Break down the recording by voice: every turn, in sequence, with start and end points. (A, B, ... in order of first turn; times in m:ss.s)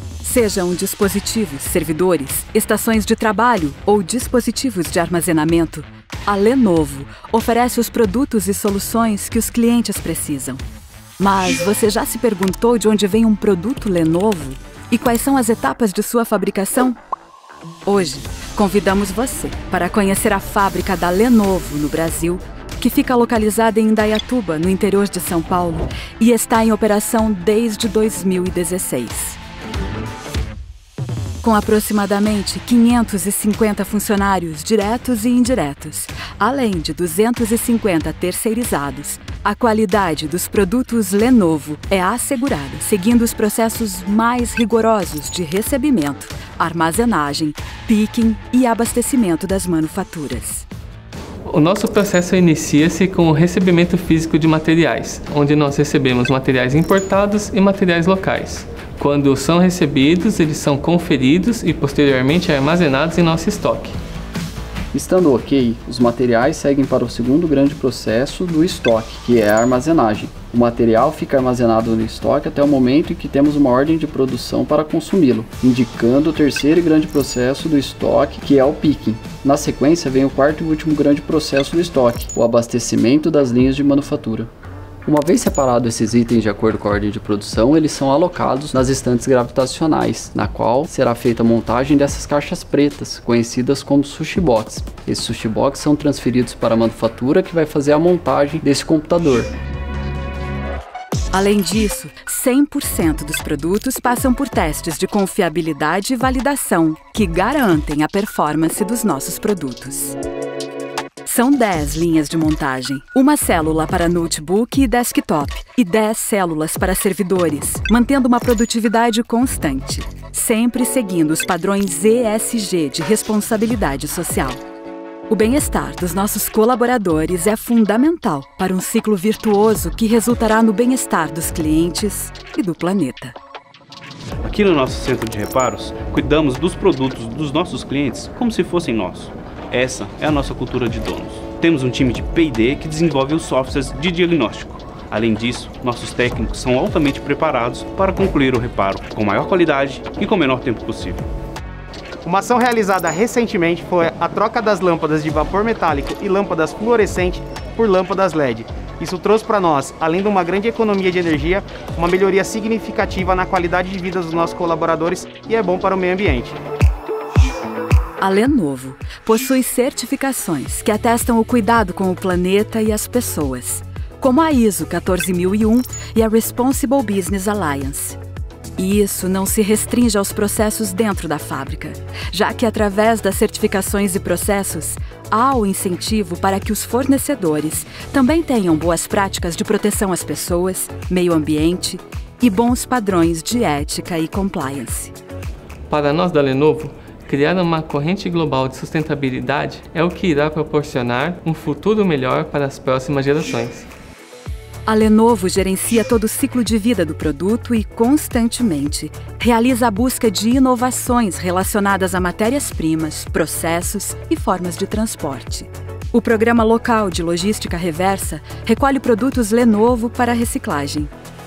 0:00.2-0:10.6 A
0:11.2-0:17.0 A
0:17.8-0:29.4 A
0:31.4-0:50.7 A
0:51.4-1:03.9 B
1:04.9-1:24.5 C
1:25.0-1:39.5 C
1:41.3-1:50.2 A
1:51.2-2:04.6 A
2:05.3-2:13.4 A
2:14.4-2:31.2 D
2:32.2-2:46.6 E
2:48.2-2:58.2 A
2:58.8-3:15.1 A
3:15.9-3:23.9 B
3:24.9-3:41.1 A